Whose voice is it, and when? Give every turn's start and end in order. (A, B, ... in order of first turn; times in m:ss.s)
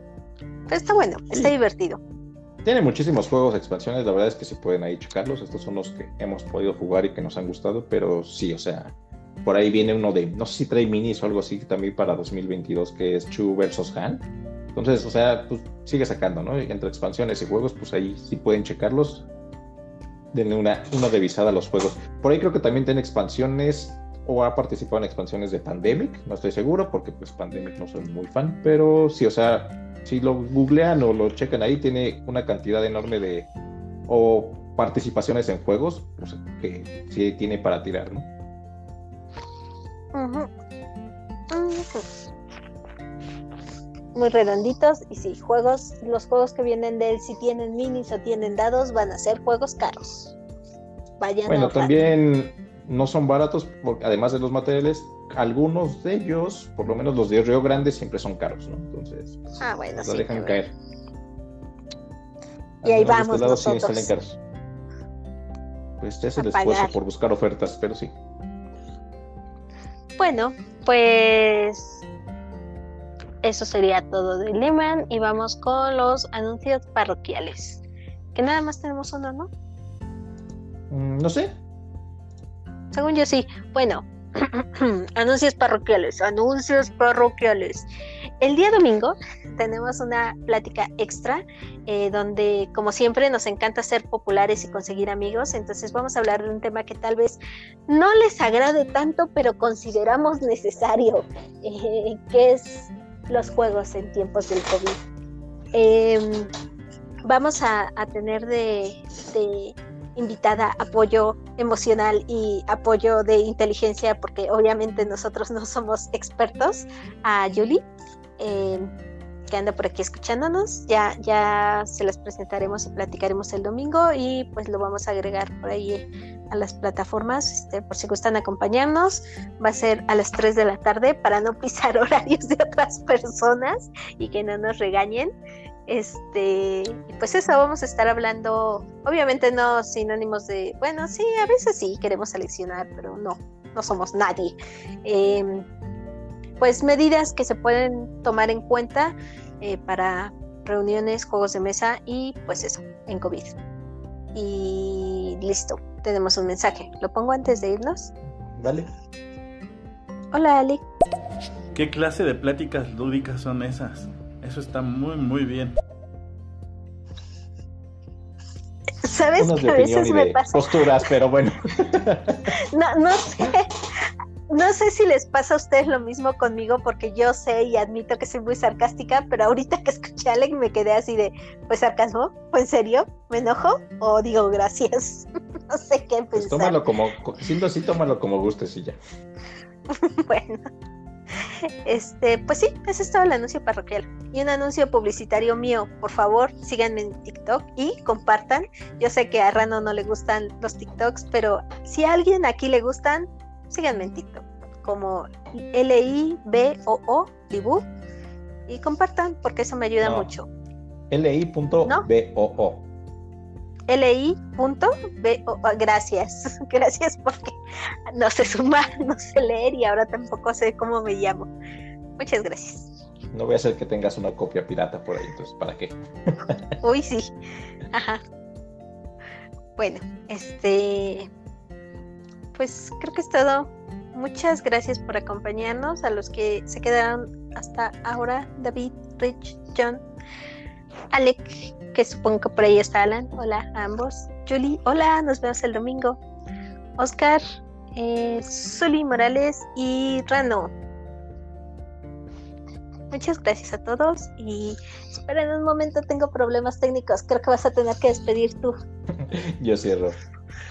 0:00.7-0:02.0 A
0:02.6-0:19.3 B
0:20.3-0:33.5 B
0:34.1-0:38.3 B
0:40.1-0:40.5 A
0:41.5-0:42.0 A
0:44.1-0:50.4 A
0:51.2-0:51.9 A
0:51.5-1:00.7 B
0:59.6-1:00.6 A
1:02.8-1:04.4 B
1:02.8-1:04.1 A
1:06.0-1:08.1 B
1:06.4-1:06.9 A
1:10.2-1:12.0 A
1:13.4-1:17.8 A
1:18.3-1:19.5 A
1:20.9-1:21.6 B
1:22.9-1:27.9 A
1:28.4-1:45.0 A
1:45.7-1:46.5 A
1:47.2-1:57.9 A
1:58.4-1:58.9 A
1:59.5-2:15.3 A
2:15.9-2:25.6 A
2:26.6-2:33.6 A
2:34.3-2:38.1 A
2:38.5-2:38.9 B
2:40.3-2:40.9 A
2:41.7-2:45.8 C
2:49.0-2:50.6 A
2:49.4-2:52.5 B
2:52.6-2:53.7 A
2:54.5-3:06.8 A
3:06.3-3:09.0 B
3:09.9-3:10.6 A
3:11.6-3:27.8 A
3:28.7-3:30.5 A
3:30.0-3:30.3 B
3:31.1-3:32.9 B
3:33.9-3:37.6 A
3:38.1-3:41.5 A
3:42.2-3:42.9 A
3:43.3-3:46.7 B
3:46.8-3:47.3 A
3:47.9-3:48.2 A
3:49.8-3:51.3 A
3:52.5-4:00.0 A
4:01.1-4:06.2 A
4:07.0-4:07.4 A
4:07.9-4:10.7 A
4:13.1-4:18.7 A
4:19.2-4:20.2 B